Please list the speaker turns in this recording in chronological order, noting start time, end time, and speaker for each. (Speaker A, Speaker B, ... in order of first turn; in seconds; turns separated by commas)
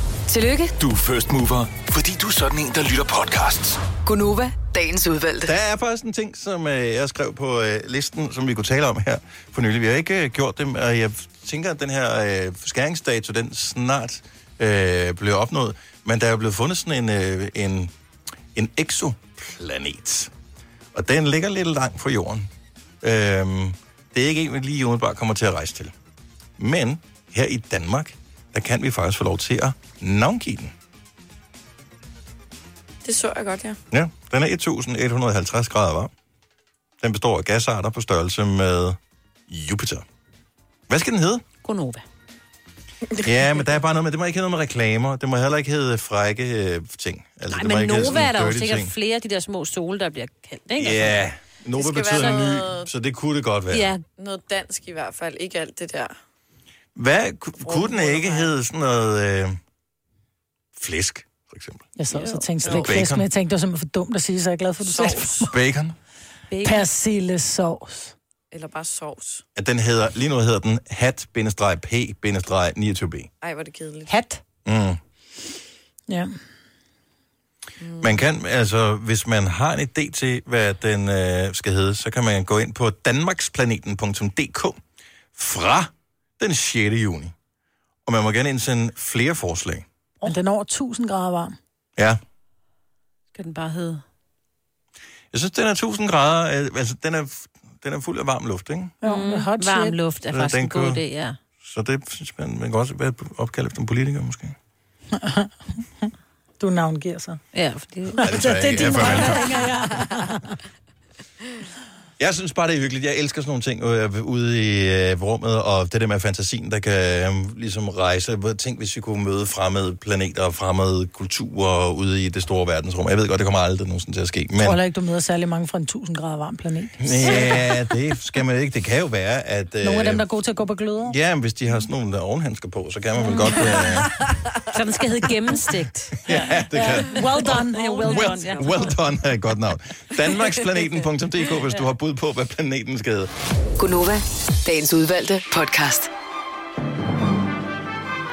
Speaker A: 0.3-0.7, Speaker B: 0.8-3.8, Speaker A: 4.0-5.5, Speaker C: 5.4-17.9, Speaker C: 18.5-20.3, Speaker C: 20.9-22.5, Speaker C: 23.0-25.9, Speaker C: 26.6-30.7, Speaker D: 33.0-33.8, Speaker C: 33.9-36.1, Speaker C: 37.0-39.0, Speaker C: 39.5-40.0, Speaker C: 40.9-41.5, Speaker E: 41.6-42.0, Speaker C: 43.2-48.9, Speaker E: 47.5-51.3, Speaker C: 50.8-53.9, Speaker D: 51.7-52.9, Speaker E: 52.1-52.5, Speaker E: 53.7-54.0, Speaker D: 54.2-56.1, Speaker C: 56.9-59.6, Speaker D: 57.6-58.5, Speaker C: 60.8-61.9, Speaker F: 62.0-65.5, Speaker E: 62.1-62.5, Speaker D: 62.6-63.0, Speaker C: 62.8-63.3, Speaker D: 64.8-65.5, Speaker C: 65.5-66.0, Speaker E: 66.5-66.9, Speaker F: 66.6-68.1, Speaker D: 68.5-69.4, Speaker C: 69.5-73.3, Speaker D: 73.4-74.1, Speaker F: 74.1-74.4, Speaker C: 74.6-75.0, Speaker D: 77.8-78.2, Speaker C: 78.0-84.8, Speaker C: 85.3-87.3, Speaker C: 88.0-89.8, Speaker F: 90.2-91.5, Speaker E: 93.3-94.0, Speaker C: 95.3-98.9, Speaker F: 99.0-100.0, Speaker E: 99.0-101.4, Speaker C: 100.3-101.0, Speaker C: 101.6-104.5, Speaker F: 105.1-107.4, Speaker E: 107.5-109.4, Speaker F: 108.2-110.6, Speaker C: 108.2-109.7, Speaker C: 112.2-124.8, Speaker F: 124.6-127.6, Speaker C: 127.0-130.3, Speaker F: 129.8-131.1, Speaker C: 131.0-134.2, Speaker E: 134.7-139.0, Speaker C: 136.2-143.3, Speaker F: 136.3-138.7, Speaker A: 143.8-146.1